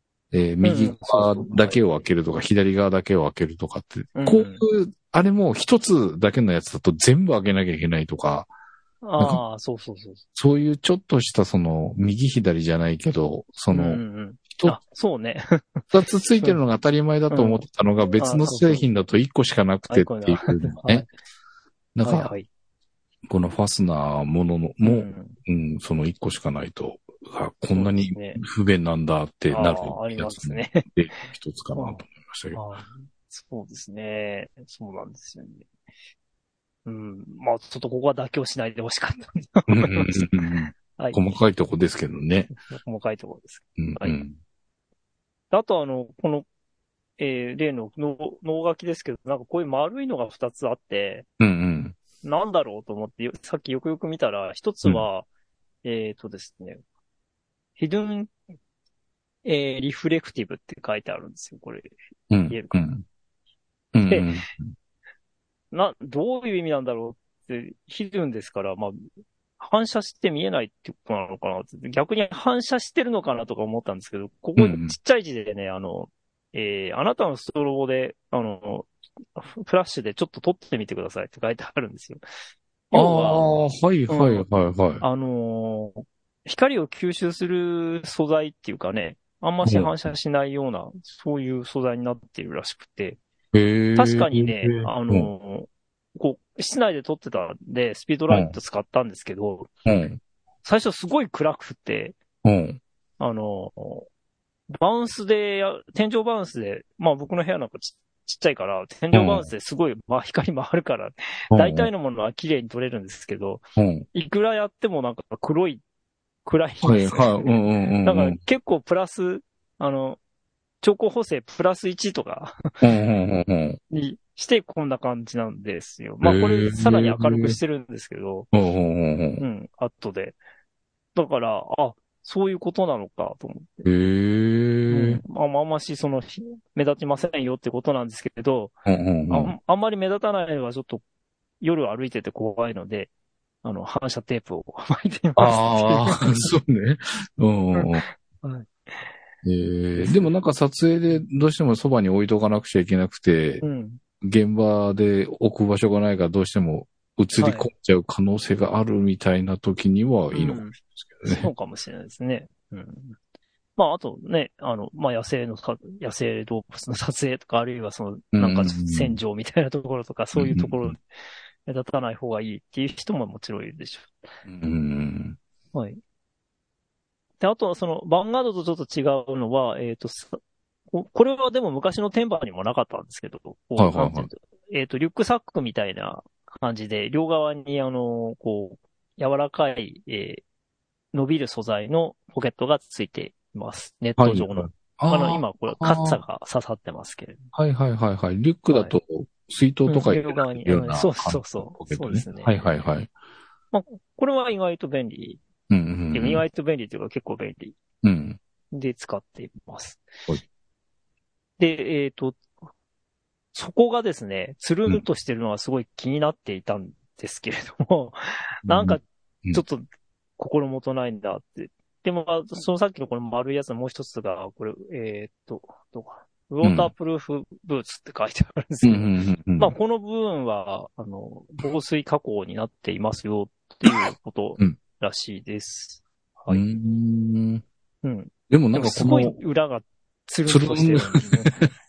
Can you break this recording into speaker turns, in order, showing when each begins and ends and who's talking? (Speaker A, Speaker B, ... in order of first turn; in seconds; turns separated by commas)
Speaker A: 0.3-8.5, Speaker B: 0.6-2.0, Speaker B: 4.1-4.6, Speaker B: 9.0-10.2, Speaker A: 10.3-14.8, Speaker B: 13.7-15.8, Speaker A: 15.9-21.1, Speaker B: 17.3-17.6, Speaker B: 18.2-18.9, Speaker B: 19.9-21.1, Speaker A: 21.9-22.3, Speaker B: 22.0-22.4, Speaker A: 23.3-32.6, Speaker B: 24.8-25.4, Speaker B: 27.7-28.4, Speaker B: 29.5-30.9, Speaker B: 31.7-32.0, Speaker B: 32.5-35.7, Speaker B: 36.9-41.2, Speaker A: 39.7-42.5, Speaker B: 42.5-44.2, Speaker A: 43.8-44.4, Speaker B: 45.5-46.5, Speaker B: 47.2-51.2, Speaker A: 51.4-52.0, Speaker B: 52.2-55.2, Speaker B: 55.8-56.8, Speaker B: 57.8-58.3, Speaker B: 59.4-61.9, Speaker A: 62.3-63.0, Speaker B: 62.5-62.8, Speaker A: 63.9-64.7, Speaker B: 65.7-68.9, Speaker B: 69.6-82.2, Speaker A: 74.6-74.9, Speaker B: 82.9-83.5, Speaker A: 82.9-85.0, Speaker B: 84.1-84.4, Speaker B: 85.0-93.2, Speaker A: 89.6-89.9, Speaker A: 93.5-95.3, Speaker B: 93.9-99.7, Speaker A: 99.8-100.2, Speaker B: 100.6-102.2, Speaker A: 102.4-102.8, Speaker B: 103.2-104.1, Speaker B: 104.7-115.8, Speaker A: 109.1-109.5, Speaker A: 111.5-111.9, Speaker A: 113.8-114.0, Speaker B: 116.5-120.2, Speaker A: 116.8-118.4, Speaker B: 120.8-122.8, Speaker A: 122.8-123.8, Speaker B: 123.9-128.5, Speaker A: 126.2-127.6, Speaker A: 128.5-129.4, Speaker B: 129.4-130.4, Speaker B: 131.1-133.9, Speaker A: 133.8-135.2, Speaker B: 134.9-138.7, Speaker A: 138.8-139.6, Speaker B: 139.3-141.0, Speaker B: 141.6-143.1, Speaker B: 143.6-146.5, Speaker A: 145.3-148.0, Speaker B: 147.7-149.0, Speaker A: 149.4-153.6, Speaker B: 149.9-150.3, Speaker B: 153.6-154.0, Speaker A: 154.2-161.5, Speaker B: 157.4-157.7, Speaker B: 160.3-163.2, Speaker B: 163.8-171.0, Speaker A: 168.3-169.2, Speaker A: 170.3-170.9, Speaker B: 171.6-174.1, Speaker A: 174.4-175.4, Speaker B: 175.7-176.0, Speaker B: 177.4-180.4, Speaker B: 180.9-190.4, Speaker A: 183.8-184.3, Speaker B: 191.1-197.4, Speaker A: 194.2-196.2, Speaker A: 197.5-203.1, Speaker B: 198.7-198.9, Speaker B: 199.8-202.7, Speaker B: 203.7-205.4, Speaker A: 205.7-206.4, Speaker B: 206.1-207.8, Speaker A: 208.0-208.4, Speaker B: 208.7-210.1, Speaker B: 211.6-212.5, Speaker B: 213.5-219.8, Speaker A: 218.7-219.6, Speaker B: 220.4-236.6, Speaker A: 226.6-226.9, Speaker A: 228.8-229.7, Speaker A: 236.5-237.6, Speaker B: 238.0-241.6, Speaker A: 238.5-239.4, Speaker A: 240.5-241.6